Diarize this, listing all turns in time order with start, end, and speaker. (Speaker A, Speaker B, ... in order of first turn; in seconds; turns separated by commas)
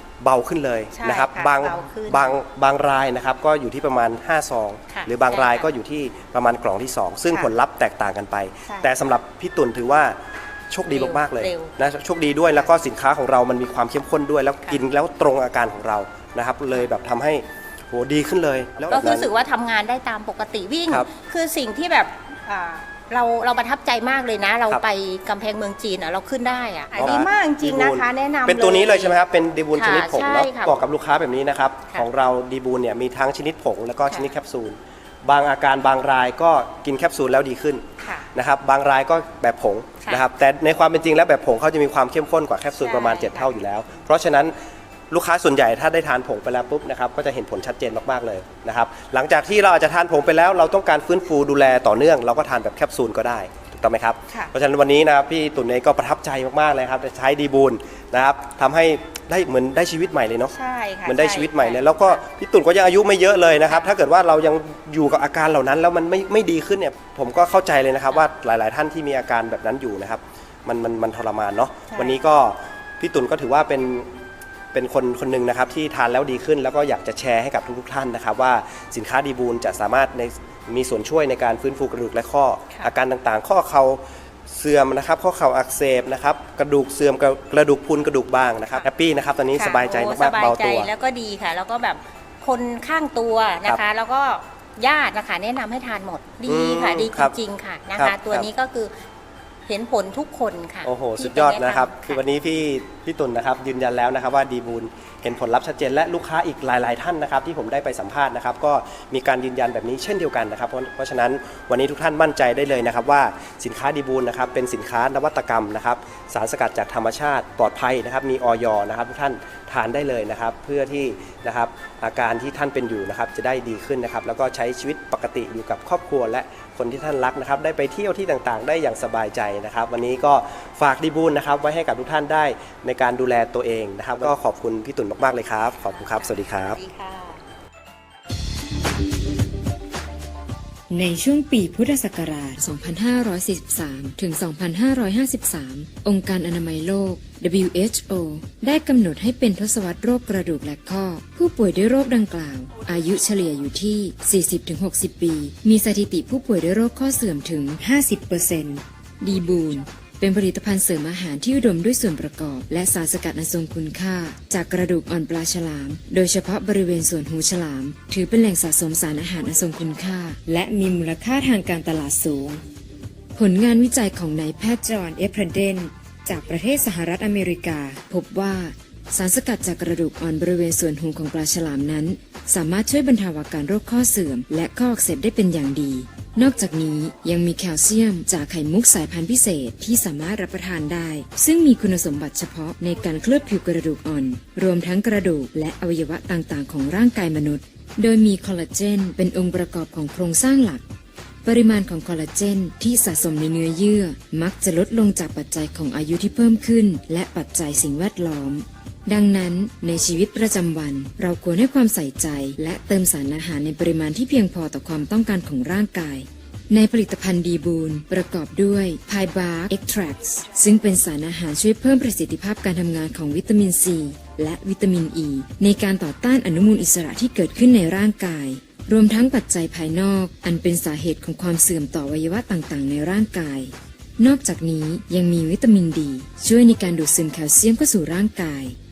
Speaker A: 0.2-10.2, Speaker B: 0.9-2.4, Speaker B: 4.9-5.7, Speaker B: 8.7-9.0, Speaker A: 10.7-19.3, Speaker B: 10.8-11.8, Speaker B: 18.9-29.2, Speaker A: 26.9-44.5, Speaker B: 29.8-30.8, Speaker B: 34.1-34.4, Speaker B: 38.0-38.3, Speaker B: 42.8-44.1, Speaker A: 45.1-60.5, Speaker B: 60.5-62.2, Speaker A: 61.1-74.1, Speaker B: 63.7-64.0, Speaker B: 71.9-72.2, Speaker A: 74.7-90.9, Speaker B: 89.5-98.9, Speaker A: 96.5-97.3, Speaker A: 98.0-98.5, Speaker B: 99.7-102.2, Speaker A: 100.8-136.8, Speaker B: 135.8-137.4, Speaker C: 140.9-172.6, Speaker C: 173.3-200.8, Speaker C: 201.4-238.8